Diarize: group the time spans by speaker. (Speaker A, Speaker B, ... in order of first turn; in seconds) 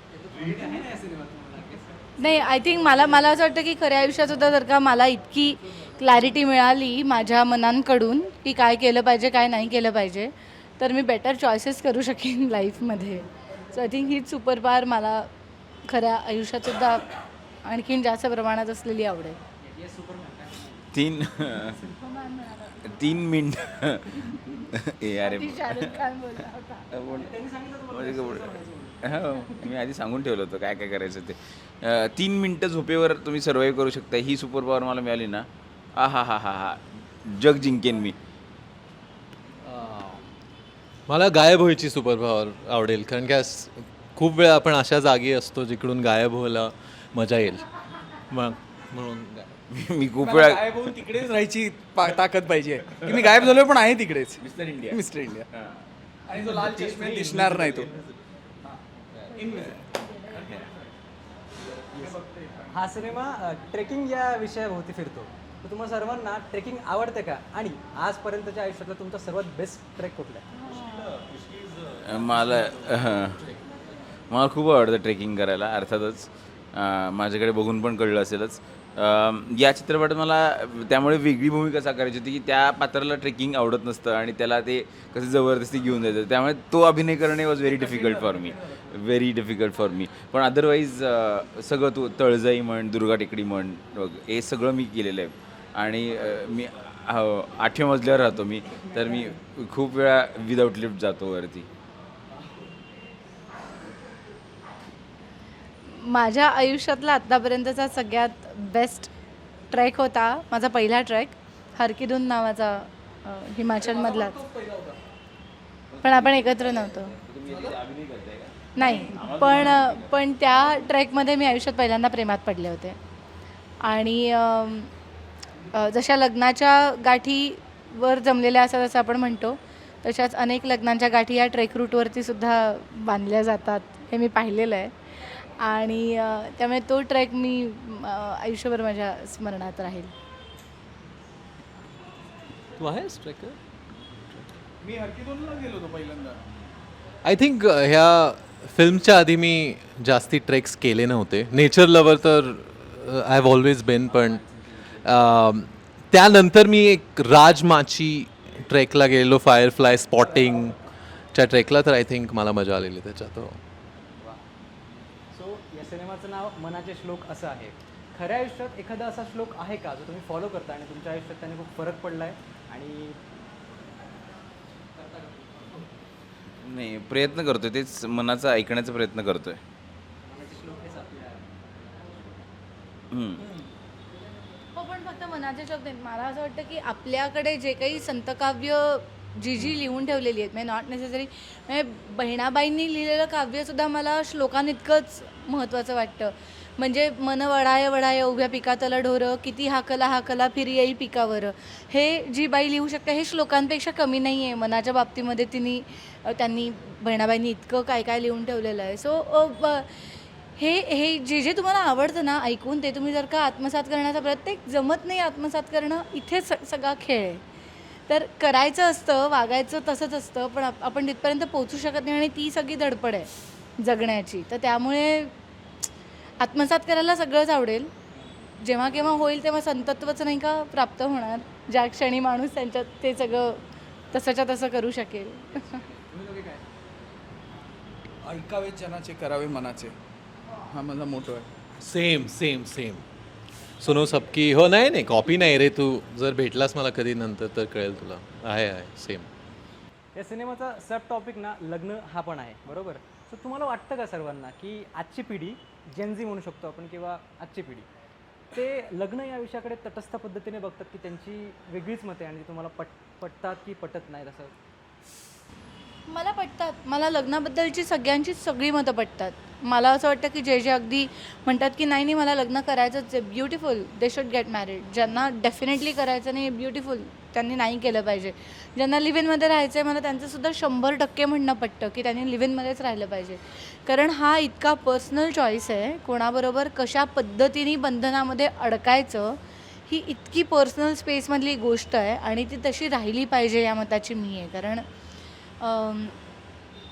Speaker A: 0.1-2.5, 19.6-20.9, 27.1-29.7, 61.9-70.5, 165.3-173.2, 174.9-175.9, 180.2-182.4, 235.5-236.6, 250.2-257.9, 258.5-264.5
Speaker B: 2.2-15.3, 15.9-17.1, 17.6-19.4, 21.6-23.1, 24.3-24.6, 25.2-26.9, 59.5-60.5, 70.5-71.2, 105.8-109.1, 109.7-114.4, 116.0-117.1, 118.8-123.0, 123.8-124.9, 125.7-140.1, 184.8-217.4, 218.1-223.3, 223.8-225.3, 226.4-227.9, 228.6-235.8, 266.1-294.8, 295.6-296.1
Speaker C: 20.9-21.8, 22.8-26.0, 26.9-27.3, 27.9-38.2, 49.7-50.7, 54.4-55.0, 55.5-55.8, 59.2-59.7, 60.2-60.6, 72.0-73.5, 74.3-101.7, 115.9-120.1, 154.1-155.2, 176.6-179.6, 183.1-183.4
Speaker D: 39.6-40.2, 41.1-47.6, 48.3-49.5, 56.4-58.1, 71.1-72.6, 142.8-143.6, 144.2-144.6, 147.2-154.4, 155.0-160.8, 161.3-163.6, 241.8-243.0, 243.8-249.3
Speaker E: 50.2-55.5, 56.3-57.9, 59.4-59.7, 62.0-62.7, 113.8-115.0, 144.8-146.4, 238.2-239.9, 240.6-241.5